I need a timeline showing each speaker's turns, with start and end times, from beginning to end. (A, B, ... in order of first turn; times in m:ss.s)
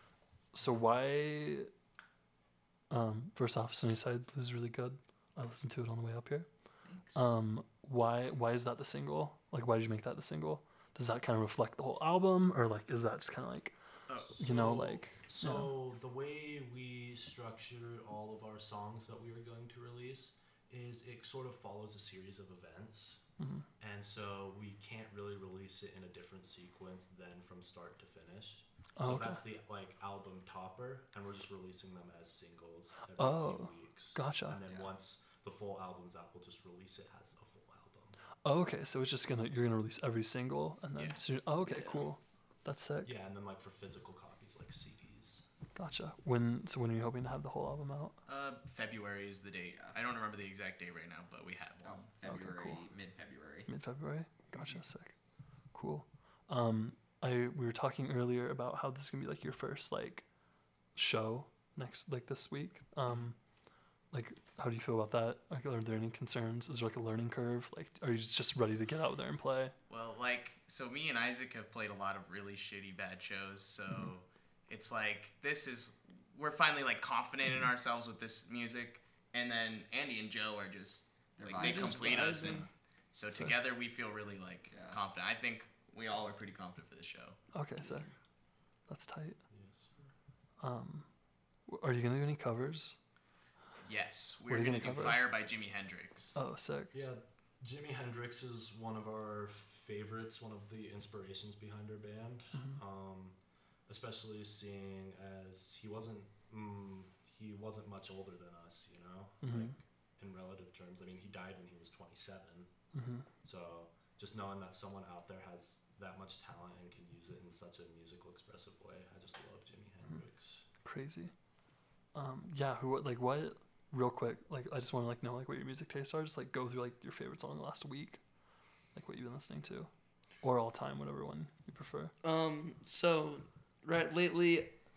0:00.5-0:01.7 A
0:02.9-0:06.5 A
0:06.8-0:07.3 B
0:07.2-0:13.8 A
0:14.1-0:14.4 C
0:14.4-0:23.2 D
0:14.4-0:15.7 A
0:23.4-0:23.7 A
0:23.8-0:38.2 D
0:29.0-0:29.4 A
0:33.2-0:34.6 A
0:34.7-0:34.9 B
0:38.4-0:43.1 A
0:41.6-0:42.1 E
0:43.0-0:45.4 D
0:45.8-0:48.2 A
0:48.3-0:52.1 C
0:49.7-0:50.0 B
0:51.8-0:53.7 B
0:52.3-0:52.8 A
0:53.7-0:55.2 A
0:55.7-1:00.3 A
1:01.0-1:03.4 A
1:04.1-1:09.8 A
1:09.9-1:27.4 C
1:21.4-1:22.5 B
1:21.6-1:22.7 E
1:24.7-1:25.0 B
1:27.5-1:28.1 A
1:27.8-1:28.1 E
1:28.9-1:29.4 A
1:29.5-1:30.1 D
1:30.6-1:31.1 A
1:31.7-1:33.0 A
1:33.9-1:36.4 C
1:34.5-1:35.2 A
1:36.4-1:37.1 A
1:36.9-1:43.4 D
1:43.9-1:52.7 D
1:49.4-1:49.8 A
1:52.9-1:53.3 A
1:53.4-2:00.7 D
2:00.8-2:01.3 A
2:02.1-2:08.2 A
2:08.9-2:09.9 A
2:10.4-2:12.1 A
2:12.2-2:14.7 E